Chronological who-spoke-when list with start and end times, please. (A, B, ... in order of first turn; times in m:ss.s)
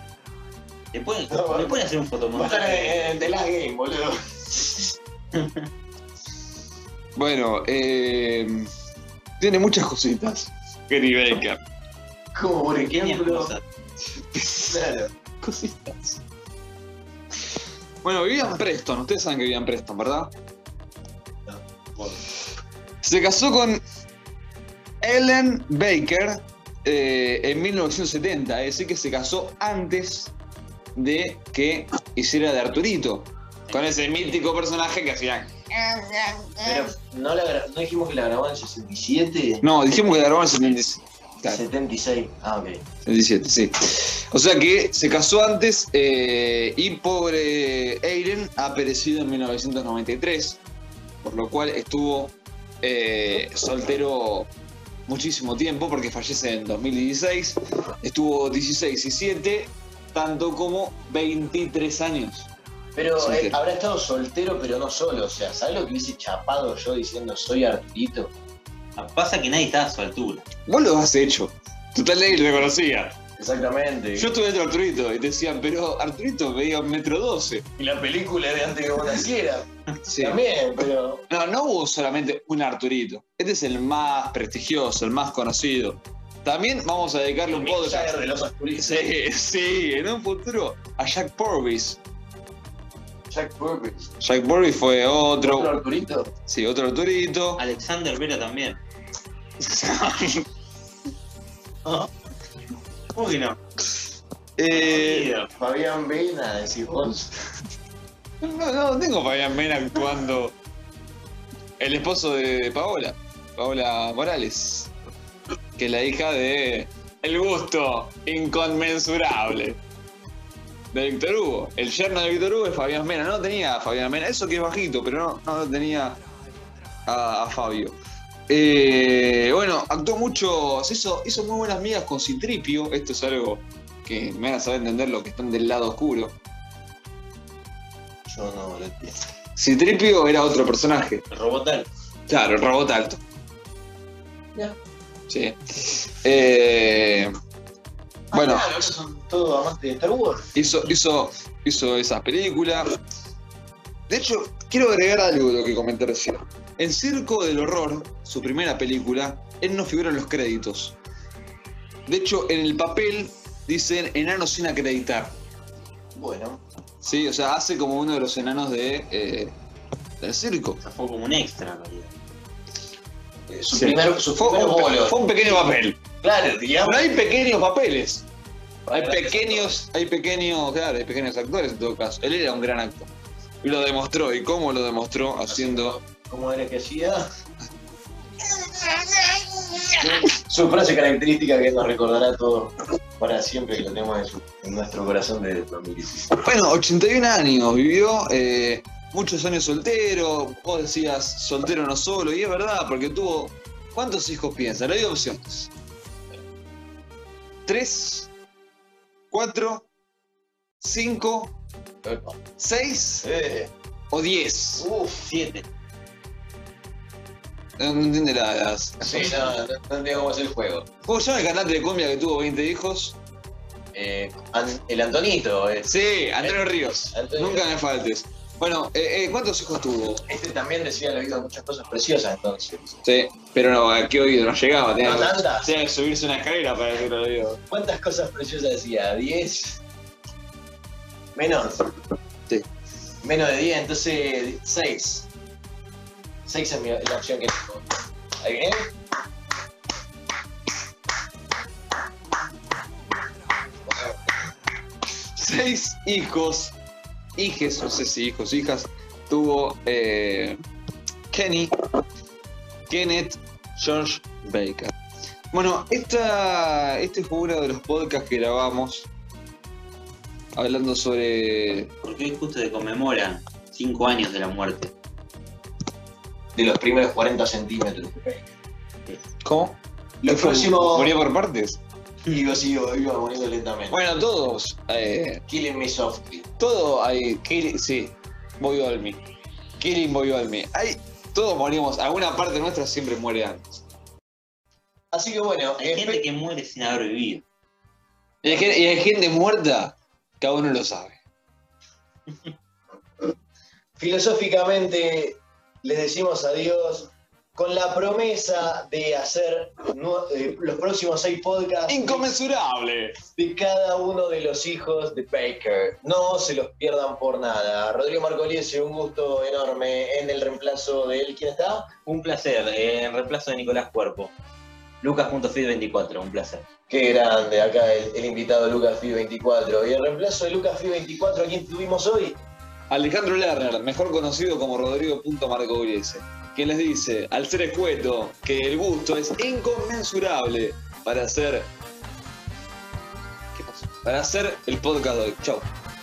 0:00.9-0:03.3 A
0:01.3-0:04.7 B
0:05.4-0:05.7 A
0:07.2-0:08.7 C
0:09.4-0:11.6 C
0:12.3-0:13.6 B
0:12.8-0:13.6 A
0:14.3-0:14.8 C
0:14.7-0:15.1 B
0:15.4-0:16.2 C
0:18.0-0:20.3 C
0:23.0-0:23.8 C
0:25.0-0:30.3 C
0:31.0-0:36.9 C
0:33.7-0:34.4 A
0:36.6-0:39.7 B
0:39.6-0:41.6 C
0:39.9-0:40.8 A
0:41.4-0:42.8 B
0:43.0-0:50.6 C
0:51.2-0:54.5 C
0:55.1-1:02.5 C
1:03.0-1:08.3 B
1:03.2-1:03.6 C
1:09.0-1:10.5 A
1:10.7-1:13.2 C
1:13.4-1:14.3 B
1:14.2-1:17.7 C
1:17.8-1:19.7 B
1:20.0-1:20.4 C
1:20.2-1:21.2 B
1:21.3-1:32.0 C
1:27.5-1:29.1 B
1:33.3-1:34.1 B
1:34.2-1:35.7 C
1:35.4-1:36.3 B
1:36.5-1:37.6 C
1:37.6-1:38.8 A
1:39.6-1:40.5 C
1:41.8-1:42.1 A
1:43.1-1:43.6 A
1:44.6-1:45.3 C
1:44.8-1:45.5 A
1:45.5-1:47.3 B
1:48.4-1:50.6 C
1:51.8-1:54.9 C
1:55.8-1:59.8 C
2:00.9-2:06.2 C
2:07.1-2:08.0 C
2:08.5-2:16.4 C
2:18.3-2:19.2 B
2:19.6-2:21.2 C
2:21.3-2:21.9 A
2:22.3-2:23.2 C
2:25.3-2:27.3 C
2:28.3-2:30.5 B
2:28.3-2:28.8 C
2:30.6-2:32.9 C
2:34.1-2:41.0 C
2:42.1-2:45.4 C
2:46.2-2:46.6 B
2:47.0-2:49.6 C
2:50.2-2:50.8 C
2:50.8-2:52.1 A
2:53.5-2:55.7 B
2:53.7-2:56.0 C
2:56.2-2:57.1 B
2:56.8-2:58.2 C
2:58.9-2:59.8 B
2:58.9-3:03.1 C
3:03.6-3:06.0 C
3:05.5-3:07.3 B
3:08.6-3:10.1 C
3:10.0-3:16.3 B
3:16.4-3:25.7 C
3:27.7-3:28.3 C
3:29.3-3:29.9 C
3:30.8-3:31.5 C
3:32.0-3:32.4 B
3:32.6-3:33.3 C
3:33.2-3:33.7 B
3:34.1-3:34.9 C
3:34.8-3:35.3 B
3:35.3-3:35.7 A
3:37.8-3:39.5 C
3:39.0-3:40.9 B
3:41.1-3:43.2 C
3:43.9-3:47.7 B
3:45.8-3:50.2 C
3:50.3-3:53.0 B
3:53.0-3:57.6 C
3:55.0-3:55.7 B
3:57.7-3:59.8 B
4:01.4-4:01.9 B
4:03.2-4:05.3 B
4:06.5-4:07.9 B
4:08.4-4:08.9 B
4:15.4-4:16.8 C
4:17.4-4:20.6 C
4:21.3-4:21.7 C
4:22.9-4:24.9 C
4:25.5-4:29.1 C
4:30.6-4:31.9 C
4:32.0-4:34.9 A
4:36.6-4:38.4 B
4:39.4-4:41.8 C
4:40.2-4:41.2 B
4:42.3-4:44.0 B
4:43.9-4:45.4 C
4:45.5-4:46.5 B
4:46.6-4:49.2 C
4:49.8-4:53.8 C
4:55.1-4:56.3 B
4:55.8-4:57.4 A
4:58.4-5:01.2 C
4:58.4-4:58.8 B
5:04.0-5:12.3 B
5:11.9-5:13.2 C
5:13.3-5:21.9 B
5:22.0-5:24.3 A
5:25.0-5:26.7 A
5:26.9-5:32.4 B
5:32.9-5:41.7 C
5:43.6-5:45.7 C